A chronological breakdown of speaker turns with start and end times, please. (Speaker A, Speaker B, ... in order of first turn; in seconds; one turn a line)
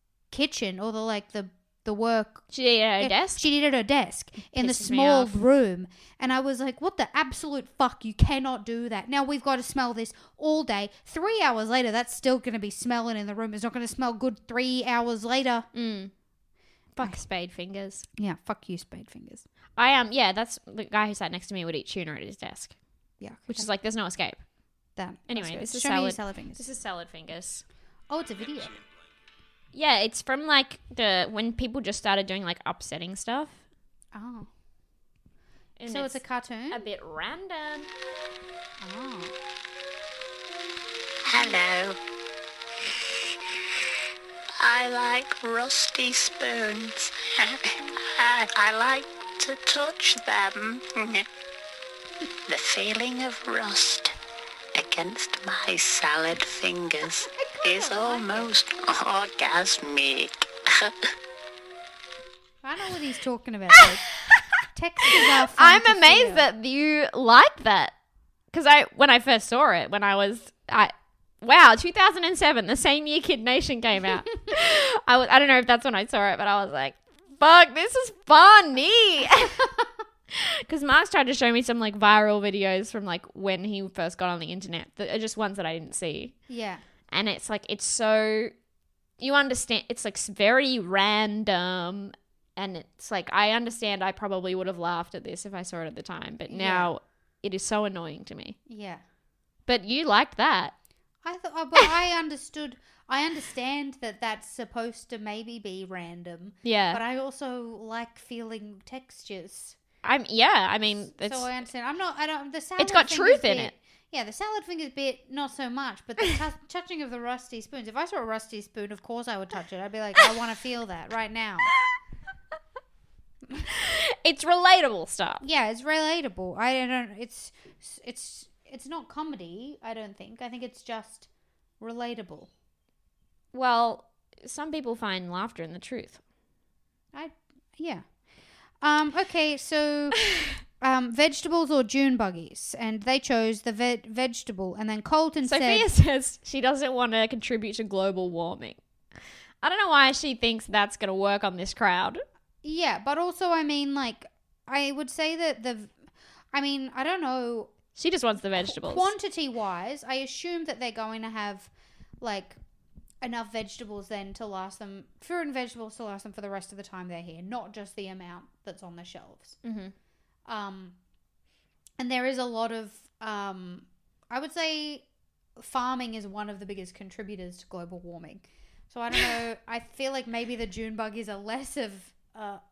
Speaker A: 0.3-15.7
Speaker B: 2.5-3.4
Speaker B: 4.5-5.3
Speaker B: 15.7-16.1
Speaker B: 16.9-18.1
Speaker A: 18.2-19.4
Speaker B: 19.8-22.7
Speaker A: 23.2-23.7
Speaker B: 23.5-24.4
Speaker A: 24.9-26.6
Speaker B: 25.3-27.6
Speaker A: 28.1-28.8
Speaker B: 29.7-33.6
Speaker A: 34.1-34.5
Speaker B: 35.8-37.9
Speaker A: 35.9-36.8
Speaker A: 38.8-39.3
Speaker C: 41.2-42.0
Speaker C: 44.6-51.2
Speaker C: 52.5-54.1
Speaker C: 54.7-60.9
Speaker A: 57.2-58.5
Speaker A: 62.6-64.0
Speaker B: 63.8-64.4
Speaker A: 64.7-66.5
Speaker B: 65.0-67.9
Speaker B: 68.5-79.6
Speaker A: 79.4-79.8
Speaker B: 80.3-86.3
Speaker A: 86.5-86.8
Speaker B: 87.1-88.5
Speaker B: 89.2-98.6
Speaker A: 96.5-96.9
Speaker A: 98.7-99.0
Speaker B: 99.7-100.7
Speaker A: 101.2-109.8
Speaker B: 106.6-107.0
Speaker B: 110.0-111.5
Speaker A: 111.0-121.7
Speaker B: 112.8-113.7
Speaker B: 123.7-125.4
Speaker A: 125.4-131.3
Speaker A: 131.8-132.5
Speaker B: 133.5-136.2
Speaker A: 137.1-138.0
Speaker A: 138.8-140.2
Speaker A: 140.8-145.9
Speaker B: 145.4-148.8
Speaker B: 149.6-152.2
Speaker A: 152.6-155.9
Speaker A: 156.5-157.8
Speaker B: 157.9-159.1
Speaker A: 158.6-162.6
Speaker A: 163.2-169.6
Speaker B: 169.6-169.9
Speaker A: 170.5-170.9
Speaker A: 172.0-175.0
Speaker A: 175.6-182.6